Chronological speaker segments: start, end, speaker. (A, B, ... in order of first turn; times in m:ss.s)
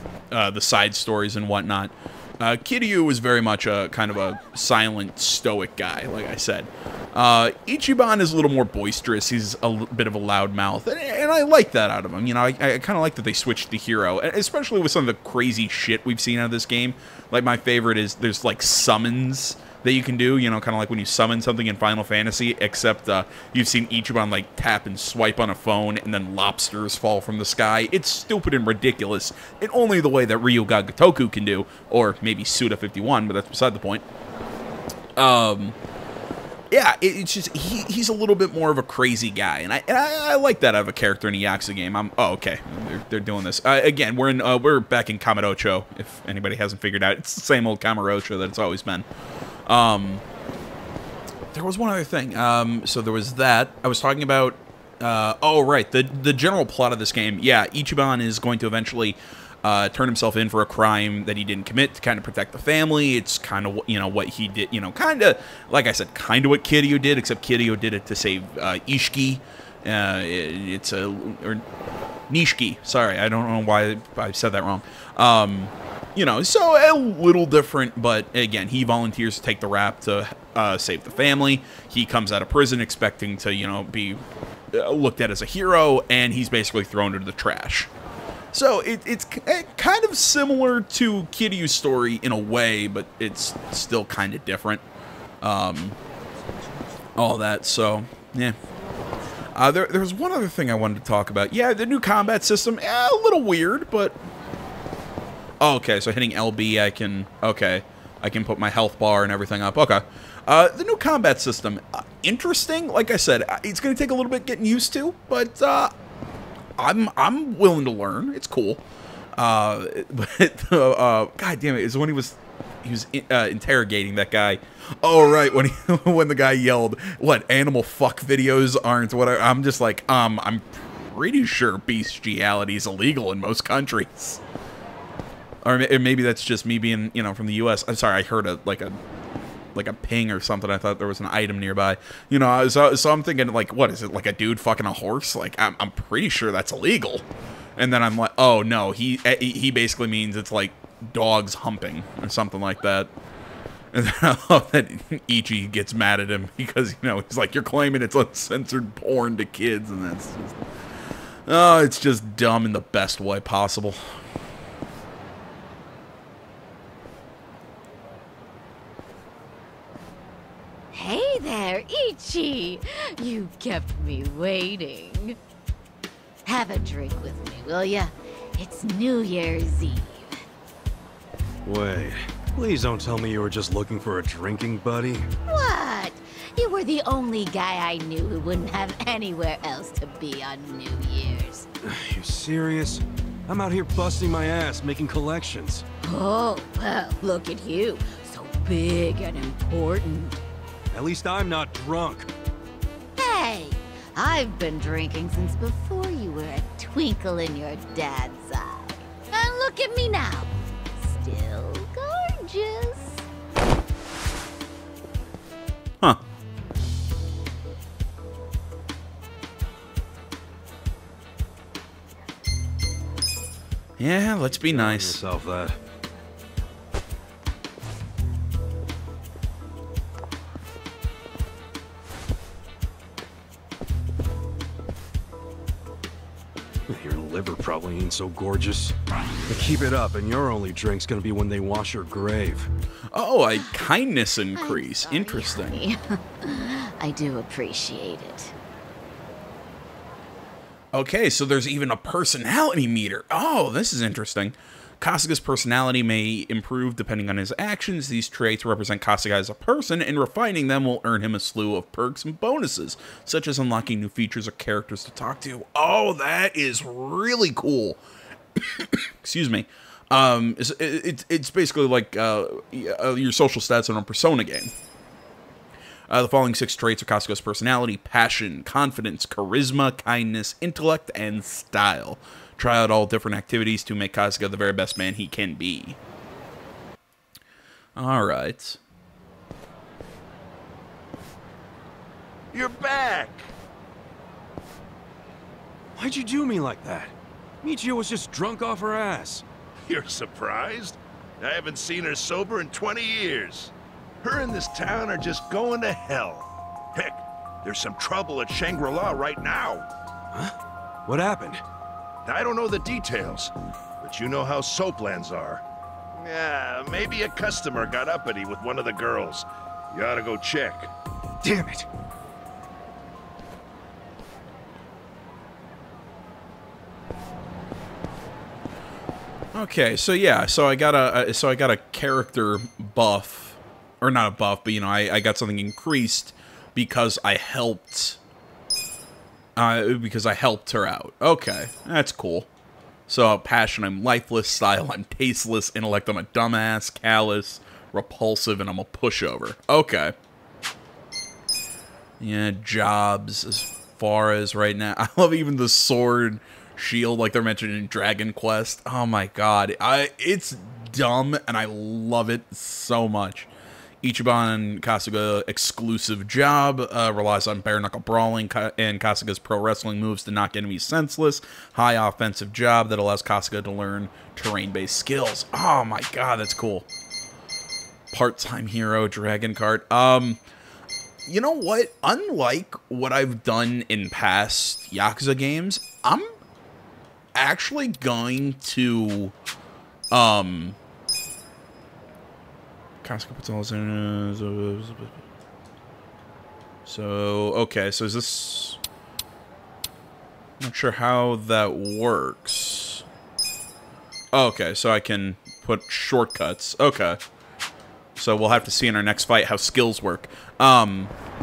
0:00.3-0:34.0 A
0:35.2-0:35.8 A
0:36.7-0:49.1 A
0:49.7-0:50.2 A
0:51.5-1:11.6 A
1:12.3-1:24.2 A
1:24.7-1:27.9 A
1:28.5-1:34.8 A
1:35.4-1:36.0 A
1:37.2-1:38.6 A
1:39.6-1:44.2 A
1:45.6-1:55.9 A
1:56.8-1:58.8 A
1:59.4-2:14.4 A
2:15.6-2:19.0 A
2:19.8-2:27.2 A
2:27.8-2:33.1 A
2:33.9-2:40.6 A
2:41.5-2:44.0 A
2:50.9-2:55.4 B
2:56.4-3:00.4 B
3:01.6-3:05.3 C
3:05.5-3:11.7 B
3:11.8-3:15.8 C
3:16.0-3:20.4 B
3:20.9-3:22.3 C
3:23.2-3:33.2 B
3:44.0-3:45.2 A
3:44.5-3:45.8 C
3:56.9-3:59.0 C
3:59.5-4:02.7 C
4:03.1-4:05.8 A
4:04.5-4:08.5 B
4:10.9-4:28.0 A
4:28.6-4:34.7 A
4:36.1-4:46.0 A
4:48.0-4:48.8 A
4:52.5-4:53.4 D
4:56.0-4:59.4 C
4:59.9-5:03.6 D
5:04.2-5:06.4 D
5:07.0-5:09.8 D
5:10.3-5:11.6 C
5:12.3-5:13.5 D
5:14.0-5:15.6 D
5:16.2-5:20.9 D
5:21.4-5:21.9 C
5:29.5-5:38.2 A
5:39.6-5:42.5 A
5:43.1-5:50.1 A
5:52.2-6:03.5 A
6:04.0-6:16.9 A
6:18.1-6:20.4 A
6:21.3-6:26.3 A
6:27.4-6:29.3 A
6:30.1-6:30.8 A
6:33.0-6:35.2 A
6:36.9-6:38.8 A
6:40.6-6:43.0 A
6:44.3-6:47.2 A
6:48.2-6:51.1 A